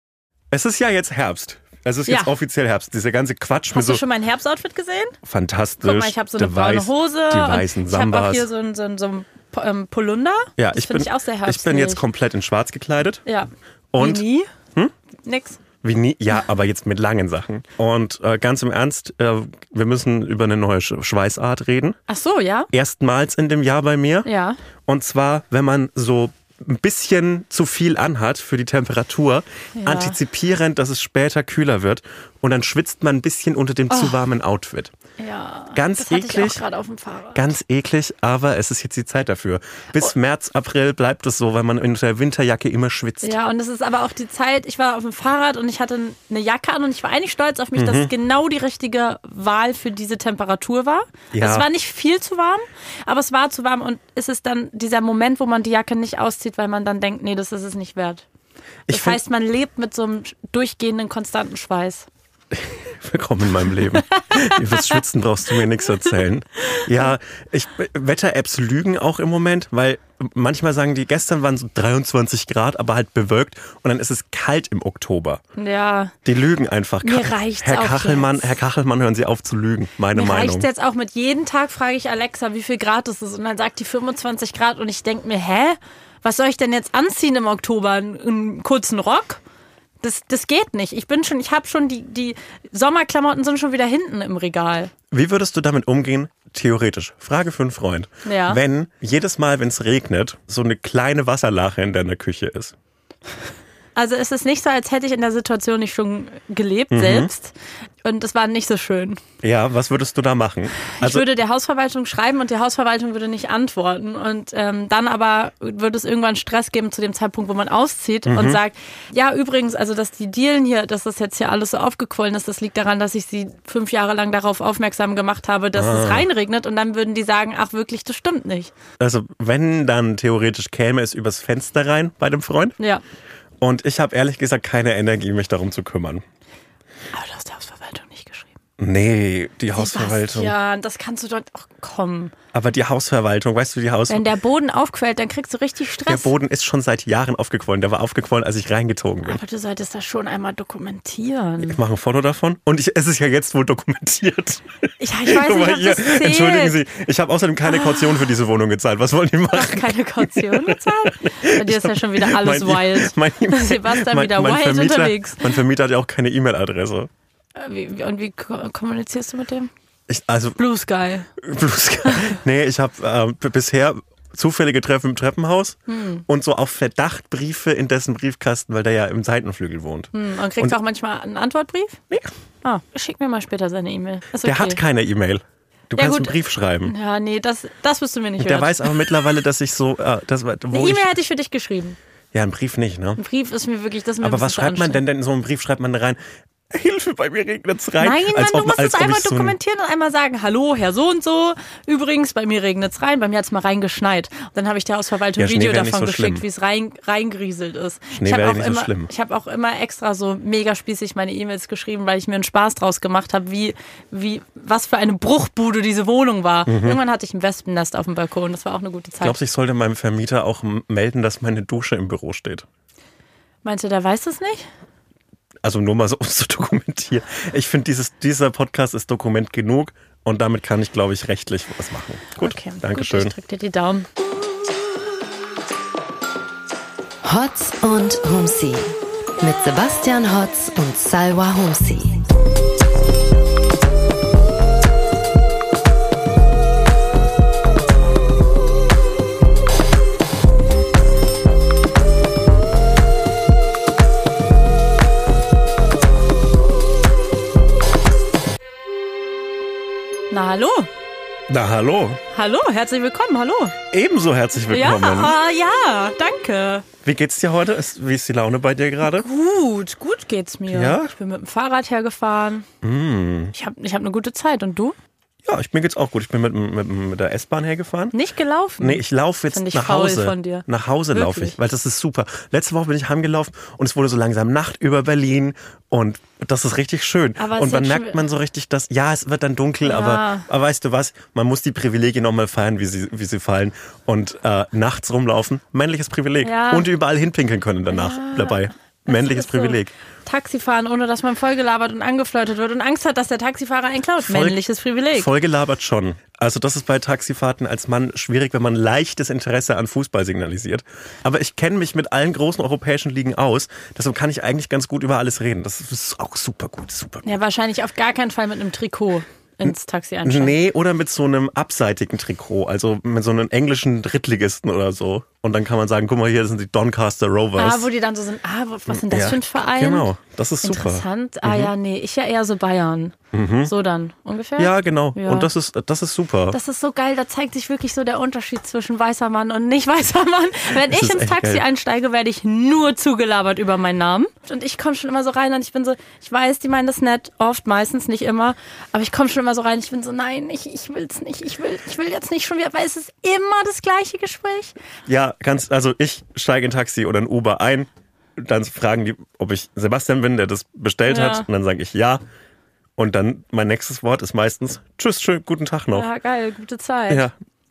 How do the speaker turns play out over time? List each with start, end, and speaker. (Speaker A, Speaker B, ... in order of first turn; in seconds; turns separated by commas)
Speaker A: 0.5-4.0, Speaker B: 2.0-2.3, Speaker B: 3.7-5.2, Speaker A: 5.2-8.5, Speaker B: 5.8-12.0, Speaker A: 10.6-13.2, Speaker B: 13.2-14.5, Speaker A: 13.9-14.9, Speaker B: 15.2-15.6, Speaker A: 15.8-22.0, Speaker B: 22.1-22.7, Speaker A: 22.7-24.3, Speaker B: 24.2-24.6, Speaker A: 24.9-34.9, Speaker B: 29.8-30.2, Speaker B: 33.9-34.1, Speaker B: 35.2-37.5, Speaker A: 35.7-36.6, Speaker A: 37.3-43.4, Speaker B: 43.2-58.2, Speaker A: 47.8-48.1, Speaker A: 51.3-51.7, Speaker A: 58.9-59.2, Speaker B: 58.9-62.1, Speaker A: 62.5-75.4, Speaker B: 63.8-65.0, Speaker B: 66.7-67.1, Speaker B: 75.5-76.1, Speaker A: 76.2-80.7, Speaker B: 77.0-78.6, Speaker B: 80.1-89.4, Speaker B: 90.0-94.9, Speaker A: 95.1-102.7, Speaker B: 98.2-98.6, Speaker B: 103.9-109.2, Speaker A: 106.9-107.3, Speaker A: 109.4-111.2, Speaker B: 110.9-128.7, Speaker A: 118.2-118.6, Speaker A: 125.8-126.2, Speaker A: 129.0-132.7, Speaker A: 133.6-136.2, Speaker B: 137.1-138.5, Speaker A: 138.8-140.5, Speaker B: 139.7-142.3, Speaker A: 142.5-144.2, Speaker B: 144.1-146.3, Speaker A: 146.1-149.4, Speaker B: 149.2-151.8, Speaker A: 151.6-167.1, Speaker B: 155.0-156.8, Speaker B: 157.7-158.2, Speaker B: 159.5-165.6, Speaker B: 167.5-169.7, Speaker A: 170.1-170.6, Speaker B: 170.6-171.3, Speaker A: 171.4-180.8, Speaker B: 172.0-172.3, Speaker B: 175.9-176.2, Speaker B: 180.1-182.0, Speaker B: 182.6-184.8, Speaker A: 184.4-186.9, Speaker B: 186.0-189.0, Speaker A: 188.4-191.1, Speaker B: 190.7-192.0, Speaker A: 192.3-193.2, Speaker B: 193.2-195.0, Speaker A: 194.2-196.2, Speaker A: 196.7-199.6, Speaker B: 198.0-219.4, Speaker A: 205.4-206.4, Speaker A: 208.2-209.1, Speaker A: 216.7-217.0, Speaker A: 219.2-222.7, Speaker B: 223.6-224.7, Speaker A: 225.6-233.3, Speaker B: 232.4-234.1, Speaker C: 237.2-242.2, Speaker B: 260.3-260.9, Speaker A: 261.5-262.2, Speaker B: 262.3-263.8, Speaker A: 263.9-265.3, Speaker B: 264.7-266.9, Speaker A: 267.0-269.2, Speaker B: 269.0-272.7, Speaker A: 270.7-271.1, Speaker A: 272.8-273.5, Speaker B: 273.5-274.9, Speaker A: 275.4-278.1, Speaker B: 278.1-281.6, Speaker A: 278.8-299.9, Speaker B: 287.4-288.2, Speaker B: 289.8-290.5, Speaker B: 296.4-296.9, Speaker B: 297.9-305.3, Speaker A: 304.2-304.6, Speaker A: 305.1-317.2, Speaker B: 317.2-320.5, Speaker A: 320.2-327.9, Speaker B: 327.6-330.1, Speaker A: 328.9-331.7, Speaker B: 330.6-335.5, Speaker A: 333.3-333.7, Speaker A: 334.6-336.6, Speaker B: 336.5-354.7, Speaker A: 340.7-341.6, Speaker A: 355.1-362.2, Speaker B: 361.1-361.4, Speaker A: 363.0-366.1, Speaker B: 365.9-367.3, Speaker A: 367.1-367.3